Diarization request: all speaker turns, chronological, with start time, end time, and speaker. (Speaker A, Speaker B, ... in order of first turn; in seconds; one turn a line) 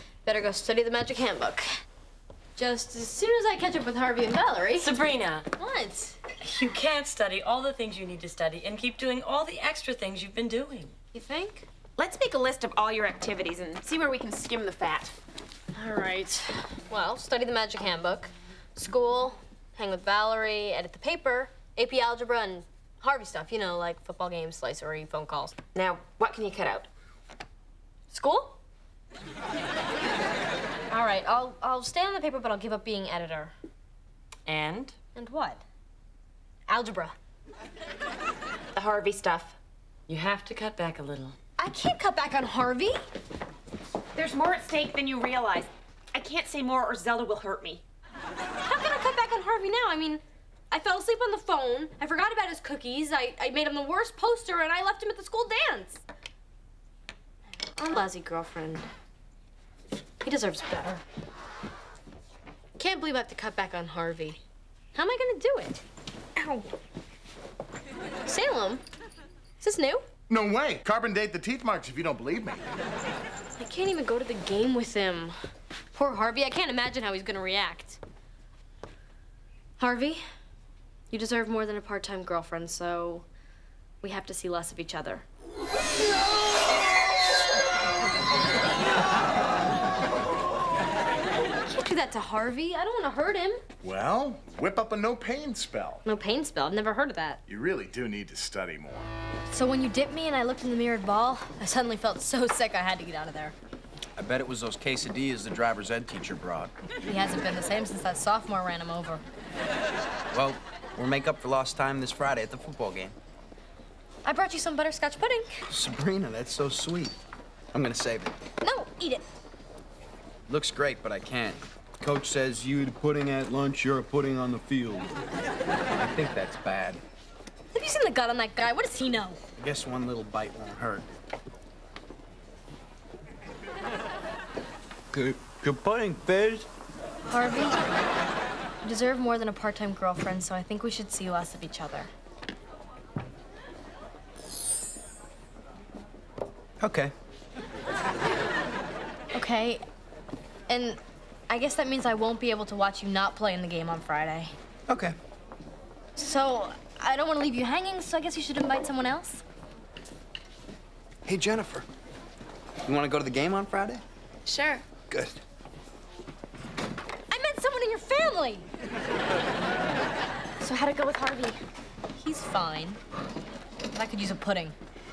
Speaker A: 0.2-1.7
Speaker A: 2.6-4.9
Speaker B: 4.8-5.5
Speaker A: 5.5-6.2
Speaker B: 6.4-10.9
Speaker A: 11.1-11.7
Speaker C: 12.0-15.2
Speaker A: 15.7-25.6
Speaker C: 25.8-26.9
Speaker A: 28.1-28.6
Speaker A: 30.9-33.5
Speaker B: 34.5-35.0
Speaker A: 35.1-35.6
Speaker A: 36.7-37.1
Speaker C: 38.8-39.6
Speaker B: 40.1-41.4
Speaker A: 41.6-43.0
Speaker C: 44.1-47.8
Speaker A: 48.6-56.0
Speaker A: 57.8-58.9
Speaker A: 60.2-61.0
Speaker A: 62.8-64.4
Speaker A: 64.9-65.8
Speaker A: 66.4-66.7
Speaker A: 68.3-68.8
Speaker A: 69.6-70.0
Speaker D: 70.3-72.7
Speaker A: 73.6-75.3
Speaker A: 75.9-78.0
Speaker A: 79.8-80.2
Speaker A: 81.1-83.3
Speaker A: 84.0-85.2
Speaker A: 91.7-93.6
Speaker D: 93.8-96.0
Speaker A: 96.0-97.4
Speaker D: 97.5-99.1
Speaker A: 99.5-103.5
Speaker E: 104.2-106.7
Speaker A: 107.0-109.2
Speaker E: 110.3-113.2
Speaker A: 114.2-115.6
Speaker E: 115.7-117.2
Speaker E: 117.7-118.4
Speaker A: 118.6-119.2
Speaker E: 120.5-125.1
Speaker E: 126.0-127.0
Speaker A: 127.7-129.4
Speaker E: 129.6-131.1
Speaker E: 135.1-136.7
Speaker A: 137.3-137.8
Speaker A: 138.8-142.1
Speaker E: 146.8-147.1
Speaker A: 149.3-149.8
Speaker A: 150.7-154.5
Speaker E: 154.9-155.2
Speaker A: 156.2-159.4
Speaker E: 161.3-161.9
Speaker E: 162.8-164.0
Speaker C: 164.5-164.8
Speaker E: 165.1-165.4
Speaker A: 167.3-168.7
Speaker C: 170.6-171.6
Speaker A: 172.2-173.0
Speaker A: 173.9-174.8